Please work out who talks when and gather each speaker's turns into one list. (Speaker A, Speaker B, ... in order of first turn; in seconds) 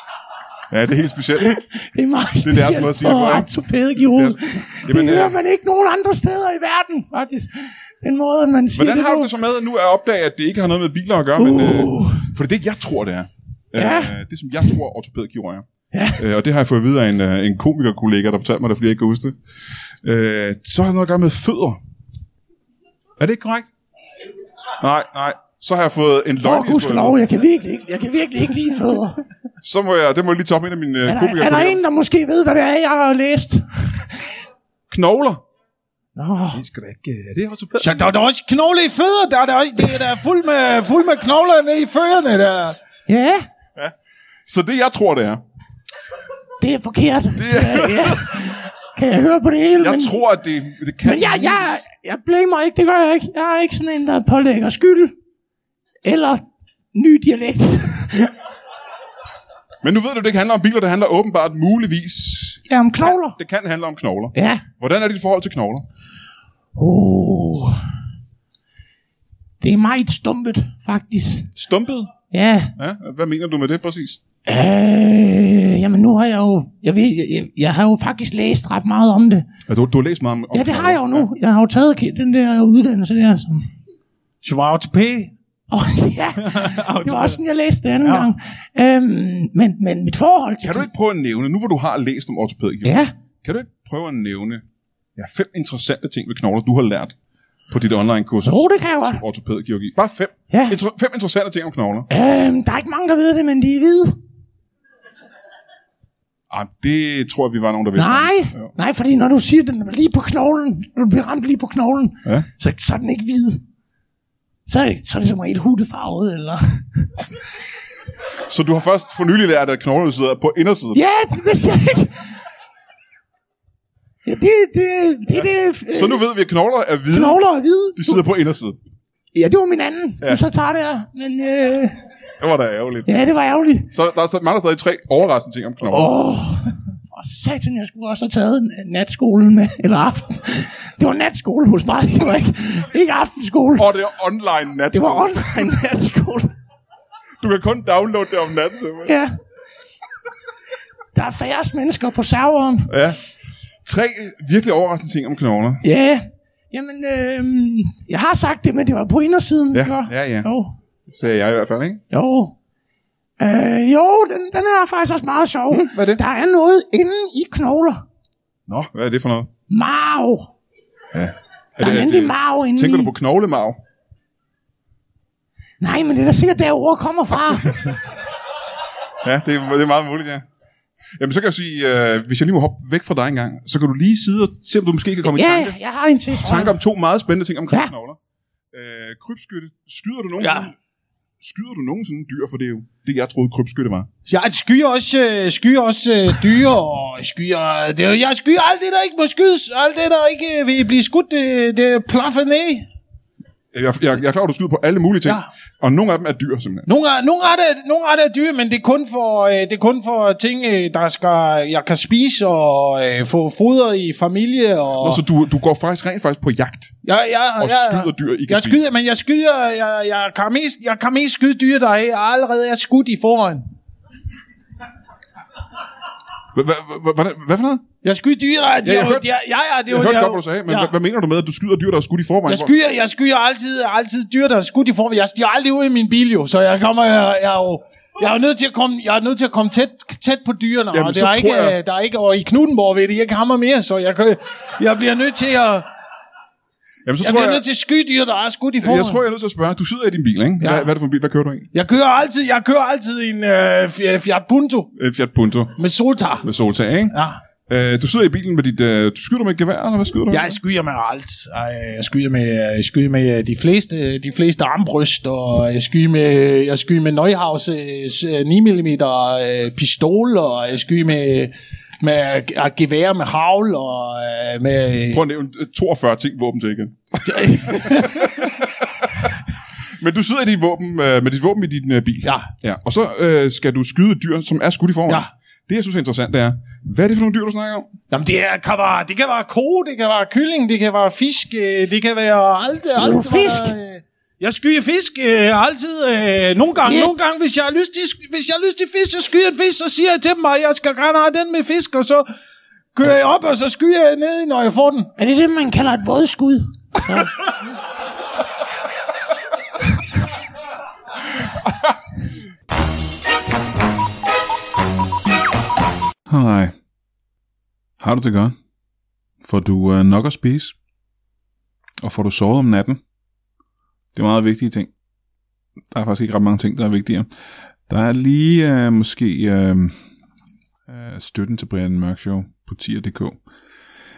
Speaker A: 0.7-1.6, 2.4-5.4, 8.7-15.6, 16.1-19.4, 20.0-21.8, 23.2-23.7, 24.8-27.2, 29.6-31.8, 34.9-35.4, 36.5-38.1, 44.5-45.4, 47.4-48.5, 49.8-51.8, 59.8-65.8, 71.5-72.1, 72.8-74.2, 79.7-81.3, 90.6-94.6, 95.2-97.1, 97.7-102.1, 106.5-108.7, 118.5-121.0, 125.3-127.4, 127.9-128.8, 132.4-133.2, 133.9-136.1, 143.8-145.7, 147.4-149.1, 152.9-153.2, 153.8-155.8, 159.7-160.5, 161.1-162.0, 165.7-166.2, 168.7-169.5, 171.1-173.8, 179.2-180.4, 181.2-185.8, 186.4-188.2, 188.7-190.7, 191.4-194.1, 203.7-206.9, 215.0-216.9, 217.6-218.8, 226.5-227.8, 228.8-229.3, 229.9-232.7, 240.9-241.8, 247.0-247.6, 248.8-251.7, 254.9-255.8, 256.4-257.1, 257.7-260.6, 275.1-279.3, 280.0-287.9, 316.3-316.7, 318.0-318.6, 319.4-320.7, 322.0-323.0, 324.1-324.9, 325.9-327.3, 327.9-329.9, 330.9-333.4
Speaker B: 1.5-9.3, 11.4-12.3, 13.7-14.2, 15.9-16.2, 26.4-29.2, 31.1-34.3, 36.1-36.6, 43.1-43.5, 46.6-50.2, 51.0-55.1, 56.0-58.3, 62.7-63.4, 64.3-64.6, 66.7-67.8, 69.6-71.5, 72.3-72.7, 74.5-79.5, 80.5-83.7, 85.7-90.9, 92.8-93.1, 98.4-99.2, 100.5-100.8, 102.1-104.2, 108.0-113.6, 114.7-117.3, 120.9-122.4, 124.2-126.2, 127.1-128.3, 129.3-132.0, 133.1-133.9, 135.8-143.9, 144.9-146.5, 149.0-149.3, 151.1-152.9, 155.8-160.8, 162.1-162.6, 163.4-168.0, 169.7-170.5, 171.8-173.1, 175.8-178.0, 185.2-186.8, 292.9-293.7, 296.8-297.1, 305.2-307.3
Speaker C: 37.8-42.8, 84.4-85.3, 86.4-87.4, 88.0-88.3, 190.4-190.7, 194.3-202.9, 206.9-215.2, 217.0-223.7, 228.0-230.9, 232.5-245.8, 247.2-249.2, 250.6-250.9, 251.7-254.9, 255.8-256.5, 257.1-257.4, 260.3-275.2, 277.2-278.5, 288.1-302.2, 302.9-305.1